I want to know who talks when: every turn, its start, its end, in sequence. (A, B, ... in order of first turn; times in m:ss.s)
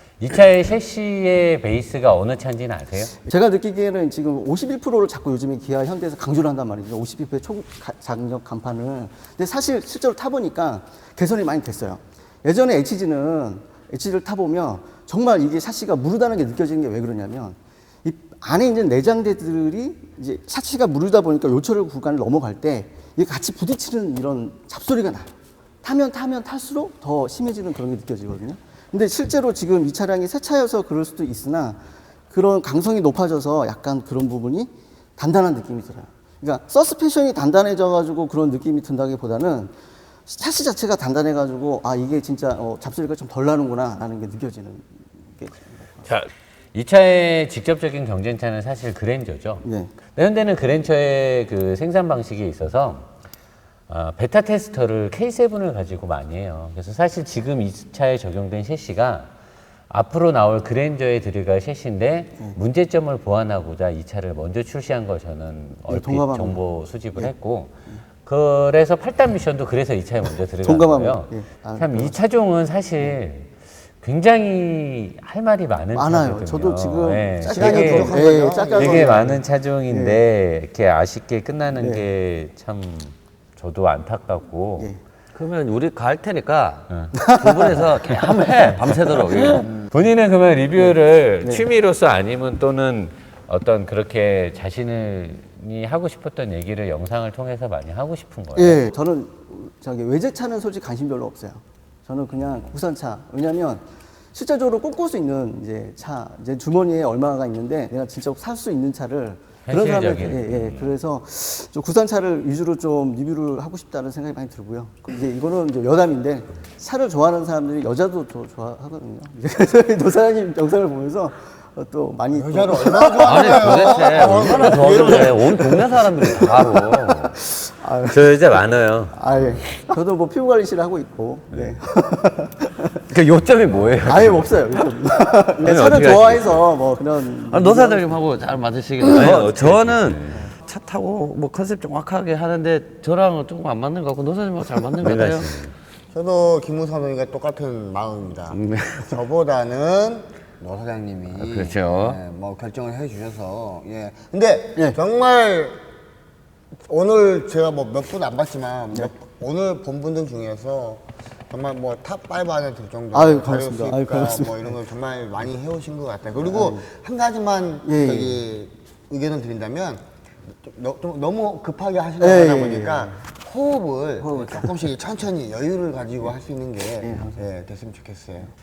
0:00.2-0:03.2 A
0:03.2-0:25.3 B
0:25.8-0:31.8 B
0:32.3-0:39.7 B
0:40.3-0:45.6 B
0:46.1-0:53.1 A
0:49.6-0:49.9 B
0:53.9-0:59.3 A
0:59.9-1:24.9 A
1:05.9-1:06.6 B
1:10.6-1:12.1 B
1:16.0-1:20.2 B
1:17.5-1:19.2 C
1:21.8-1:22.0 B
1:25.4-1:29.7 D
1:27.2-1:27.6 B
1:28.7-1:38.8 A
1:38.6-1:43.8 B
1:44.3-2:04.0 B
1:49.7-1:50.9 A
2:02.3-2:05.7 C
2:03.2-2:07.4 D
2:06.3-2:08.3 B
2:08.1-2:09.7 A
2:09.2-2:13.0 B
2:13.1-2:14.6 D
2:14.0-2:18.1 B
2:15.6-2:16.6 A
2:17.5-2:25.6 D
2:19.1-2:20.4 A
2:25.0-2:25.7 A
2:26.1-2:35.8 C
2:28.5-2:29.2 D
2:31.4-2:32.2 D
2:36.9-2:50.0 C
2:43.1-2:44.5 B
2:46.4-2:46.8 B
2:47.8-2:48.4 B
2:50.6-2:58.5 C
2:52.2-2:53.1 B
2:54.2-2:54.7 B
2:57.0-2:57.4 B